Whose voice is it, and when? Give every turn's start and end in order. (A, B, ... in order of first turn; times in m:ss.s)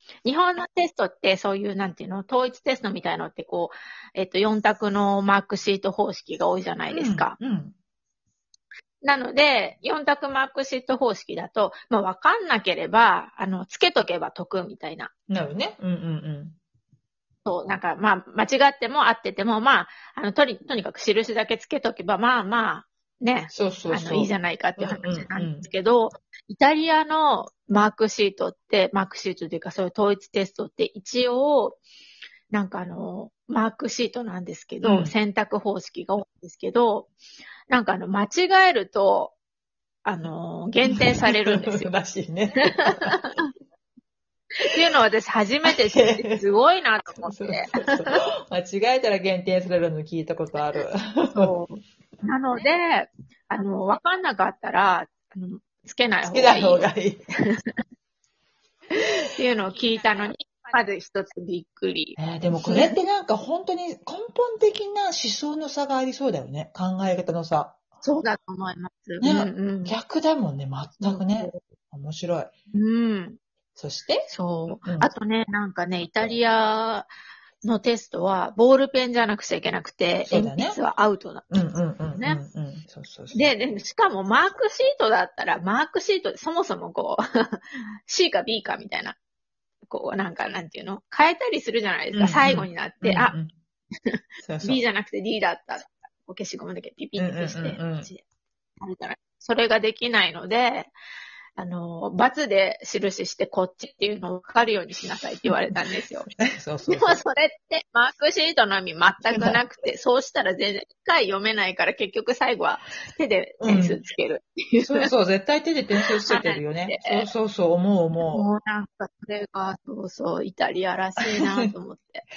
0:00.2-0:07.3 A
0:06.9-0:07.7 B
0:09.0-0:15.1 A
0:15.3-0:16.6 B
0:17.4-0:31.8 A
0:23.5-0:25.7 B
0:32.5-0:37.1 A
0:34.8-0:35.1 B
0:37.7-0:39.4 A
0:40.0-0:41.9 A
0:40.9-0:43.2 B
0:42.8-0:43.4 A
0:44.6-0:47.9 A
0:45.7-0:46.4 B
0:47.2-0:51.5 B
0:51.3-0:56.9 A
0:56.2-0:57.2 B
0:57.5-0:57.8 A
0:59.0-1:03.0 A
1:02.2-1:07.8 B
1:08.0-1:10.0 A
1:09.2-1:12.5 B
1:11.0-1:11.6 A
1:12.7-1:13.4 A
1:13.8-1:15.1 B
1:14.3-1:17.1 A
1:17.6-1:21.5 A
1:20.3-1:20.8 B
1:21.5-1:23.5 B
1:22.1-1:22.4 A
1:23.3-1:29.2 A
1:29.9-1:33.3 A
1:32.1-1:33.5 B
1:34.4-1:34.8 B
1:34.6-1:38.2 A
1:37.2-1:38.1 B
1:38.8-1:40.9 A
1:41.6-1:46.3 A
1:46.4-1:47.2 B
1:46.9-1:55.1 A
1:49.3-1:49.6 B
1:53.6-1:54.0 B
1:54.8-1:58.5 B
1:56.2-1:57.3 A
1:58.3-2:02.2 A